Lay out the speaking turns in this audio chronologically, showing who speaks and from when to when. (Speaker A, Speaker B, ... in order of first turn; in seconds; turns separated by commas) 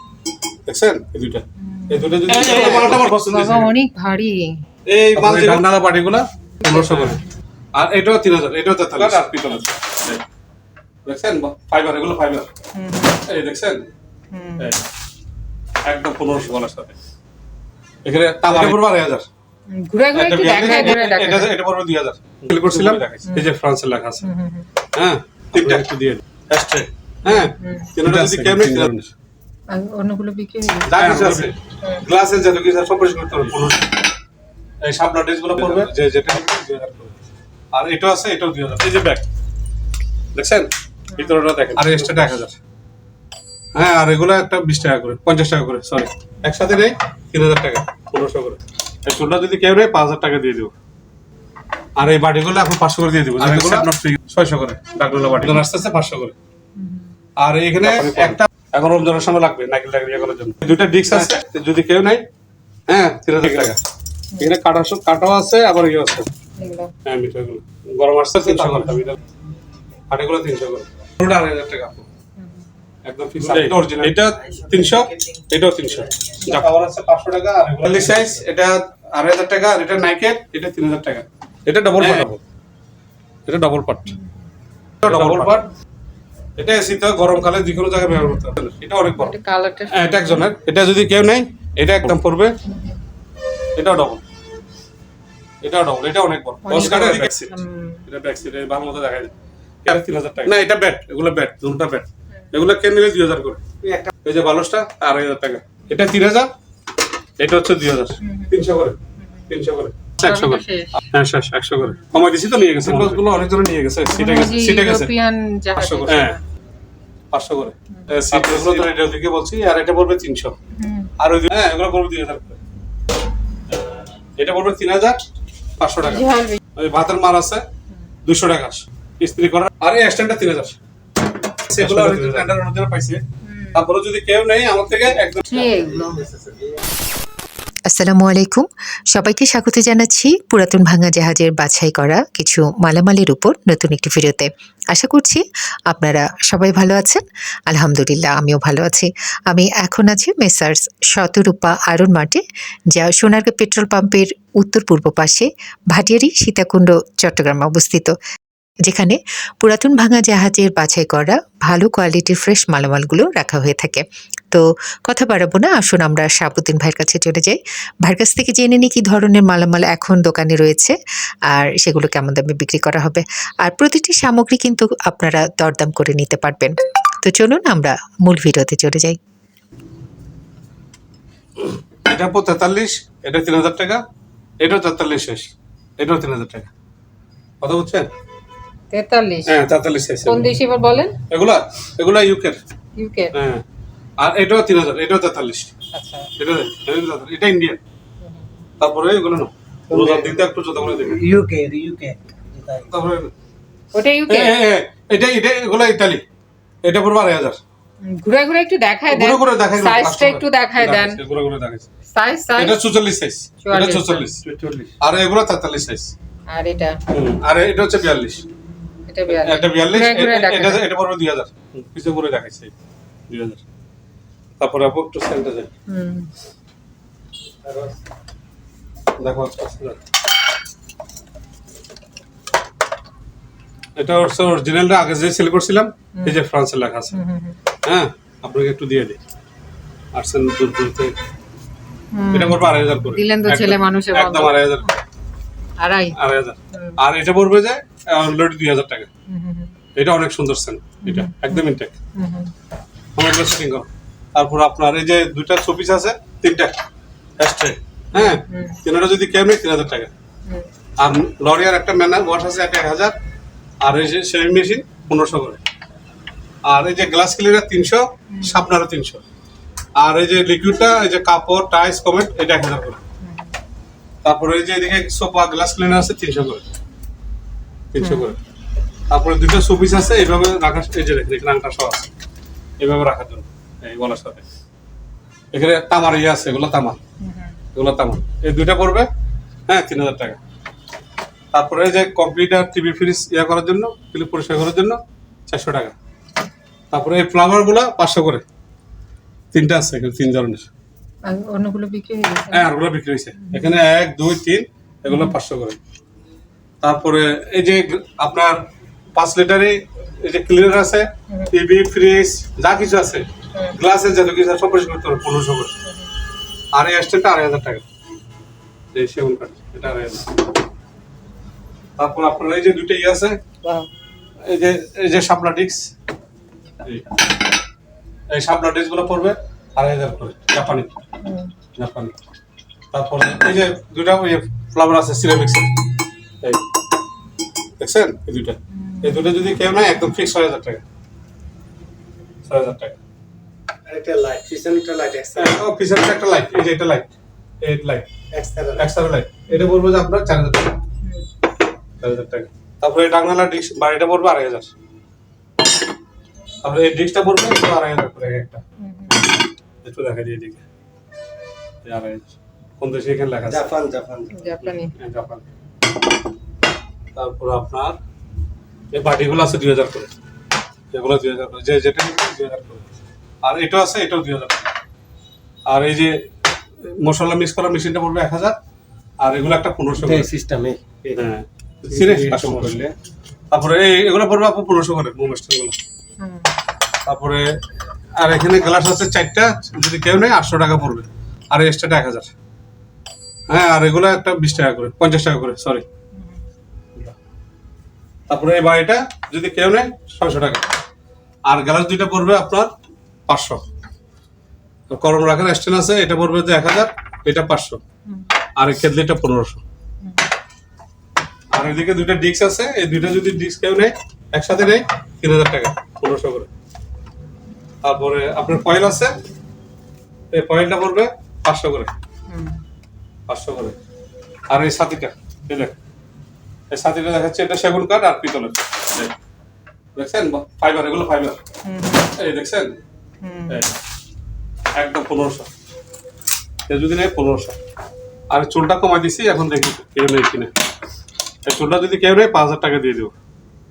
Speaker A: 0.7-3.7, Speaker B: 1.6-4.6, Speaker A: 4.9-7.2, Speaker C: 5.2-5.6, Speaker B: 6.6-7.1, Speaker A: 7.7-10.2, Speaker A: 11.1-12.5, Speaker B: 12.7-13.2, Speaker A: 13.2-13.9, Speaker B: 14.3-14.8, Speaker A: 15.8-16.9, Speaker A: 18.0-19.2, Speaker B: 19.7-21.5, Speaker A: 20.1-24.3, Speaker B: 22.7-23.5, Speaker B: 24.2-24.7, Speaker A: 24.9-25.9, Speaker C: 25.5-26.2, Speaker A: 26.5-29.0, Speaker B: 27.2-27.9, Speaker C: 28.0-29.1, Speaker B: 29.7-31.2, Speaker A: 30.9-34.0, Speaker C: 30.9-31.5, Speaker A: 34.8-36.3, Speaker C: 35.7-37.1, Speaker A: 37.7-39.2, Speaker A: 40.3-40.7, Speaker B: 41.1-41.6, Speaker A: 41.7-42.5, Speaker A: 43.7-50.7, Speaker A: 52.0-56.3, Speaker B: 56.8-57.1, Speaker A: 57.4-62.2, Speaker A: 62.9-63.8, Speaker A: 64.4-66.3, Speaker B: 66.6-66.9, Speaker A: 67.0-69.2, Speaker C: 68.4-69.0, Speaker A: 70.1-72.0, Speaker B: 72.4-72.7, Speaker A: 73.0-82.4, Speaker C: 73.4-75.1, Speaker B: 76.4-76.7, Speaker C: 77.5-78.3, Speaker C: 82.0-82.3, Speaker A: 83.5-84.1, Speaker A: 85.0-85.7, Speaker A: 86.6-89.3, Speaker B: 89.1-90.5, Speaker A: 89.9-92.5, Speaker A: 93.8-94.2, Speaker A: 95.6-99.3, Speaker B: 96.6-98.0, Speaker A: 99.8-103.6, Speaker C: 103.8-104.1, Speaker A: 104.2-106.5, Speaker A: 107.4-109.0, Speaker B: 108.2-108.6, Speaker A: 109.5-115.1, Speaker B: 110.2-111.0, Speaker C: 112.8-113.2, Speaker B: 114.1-116.4, Speaker A: 115.8-116.3, Speaker A: 117.3-120.5, Speaker C: 118.2-118.9, Speaker B: 120.8-121.1, Speaker A: 121.2-122.6, Speaker A: 124.4-127.6, Speaker B: 126.0-126.6, Speaker A: 128.2-130.8, Speaker C: 131.7-132.4, Speaker A: 131.7-133.2, Speaker B: 133.4-133.8, Speaker A: 133.7-135.7, Speaker B: 135.4-136.3, Speaker C: 136.2-136.8, Speaker D: 137.9-158.2, Speaker D: 158.9-170.9, Speaker D: 171.5-179.2, Speaker A: 182.0-184.0, Speaker A: 184.6-186.7, Speaker A: 187.6-188.1, Speaker B: 188.9-189.6, Speaker A: 189.4-190.5, Speaker B: 190.2-191.2, Speaker A: 191.3-192.6, Speaker B: 192.9-193.3, Speaker A: 193.3-193.6, Speaker A: 194.2-195.7, Speaker B: 195.9-196.3, Speaker A: 196.4-197.8, Speaker A: 198.8-201.2, Speaker C: 199.9-203.0, Speaker A: 202.9-203.3, Speaker B: 203.9-204.6, Speaker A: 204.3-206.2, Speaker A: 206.8-207.6, Speaker B: 208.0-211.2, Speaker A: 209.1-211.9, Speaker B: 212.1-212.8, Speaker A: 212.6-214.4, Speaker B: 213.6-214.3, Speaker C: 214.4-214.9, Speaker A: 215.0-216.1, Speaker B: 216.5-217.0, Speaker A: 217.1-218.4, Speaker B: 219.1-220.8, Speaker A: 219.3-222.7, Speaker A: 223.3-223.6, Speaker A: 224.6-225.7, Speaker B: 225.9-226.3, Speaker C: 227.6-228.0, Speaker A: 229.2-230.0, Speaker A: 233.9-237.2, Speaker B: 237.1-237.6, Speaker A: 237.8-239.2, Speaker A: 240.1-241.2, Speaker B: 242.1-244.8, Speaker A: 242.3-244.9, Speaker B: 245.8-246.2, Speaker A: 246.1-249.1, Speaker B: 246.7-247.0, Speaker B: 249.3-249.7, Speaker A: 249.9-251.9, Speaker B: 251.0-252.5, Speaker A: 253.2-256.7, Speaker A: 257.4-260.1, Speaker B: 258.1-258.8, Speaker A: 261.0-263.1, Speaker A: 263.8-265.6, Speaker A: 266.6-269.2, Speaker B: 268.3-268.6, Speaker A: 269.9-273.0, Speaker B: 273.2-273.5, Speaker A: 274.2-276.6, Speaker A: 277.9-278.4, Speaker B: 278.0-278.3, Speaker A: 279.1-282.1, Speaker A: 282.8-284.4, Speaker A: 285.5-287.0, Speaker B: 287.2-287.6, Speaker A: 287.7-289.1, Speaker A: 289.7-290.4, Speaker A: 291.5-295.9, Speaker A: 296.9-298.4, Speaker A: 299.5-300.7, Speaker B: 301.2-302.7, Speaker A: 302.5-305.8, Speaker B: 303.4-303.8, Speaker B: 305.1-305.4, Speaker A: 306.8-308.6, Speaker A: 309.1-315.7, Speaker A: 316.7-317.8, Speaker A: 318.9-320.3, Speaker A: 322.0-323.4, Speaker B: 323.6-323.9, Speaker A: 324.4-325.9, Speaker A: 328.3-330.9, Speaker B: 331.2-331.5, Speaker A: 331.8-332.1, Speaker A: 332.9-335.7, Speaker A: 337.8-340.8, Speaker B: 338.8-339.3, Speaker A: 342.4-342.9, Speaker C: 343.8-345.6, Speaker A: 345.3-347.1, Speaker A: 347.6-348.1, Speaker C: 348.3-348.9, Speaker A: 348.8-350.8, Speaker A: 352.0-354.7, Speaker A: 356.6-360.6, Speaker B: 358.8-359.3, Speaker A: 361.8-363.7, Speaker C: 363.4-364.3, Speaker B: 364.3-364.9, Speaker A: 364.6-365.4, Speaker A: 367.1-368.0, Speaker A: 368.9-370.1, Speaker A: 370.9-372.8, Speaker A: 373.4-374.6, Speaker A: 375.6-376.2, Speaker A: 377.0-378.6, Speaker A: 379.2-380.3, Speaker C: 380.0-381.3, Speaker A: 381.1-382.8, Speaker C: 381.9-382.9, Speaker A: 383.5-385.8, Speaker B: 386.2-386.5, Speaker A: 387.0-387.6, Speaker A: 388.1-392.3, Speaker A: 393.5-395.8, Speaker A: 398.3-400.6, Speaker A: 401.4-402.7, Speaker A: 403.3-403.6, Speaker A: 404.9-407.8, Speaker B: 408.1-408.3, Speaker A: 408.6-409.6, Speaker B: 410.0-410.3, Speaker A: 411.5-416.5, Speaker A: 417.8-419.1, Speaker A: 420.3-421.9, Speaker B: 422.3-422.6, Speaker A: 423.3-423.8, Speaker A: 424.5-425.7, Speaker A: 426.7-429.1, Speaker A: 429.9-431.4, Speaker B: 431.6-432.1, Speaker A: 432.1-432.8, Speaker B: 433.2-433.6, Speaker A: 434.8-435.5, Speaker A: 436.7-437.6, Speaker A: 438.3-440.5, Speaker A: 441.4-443.1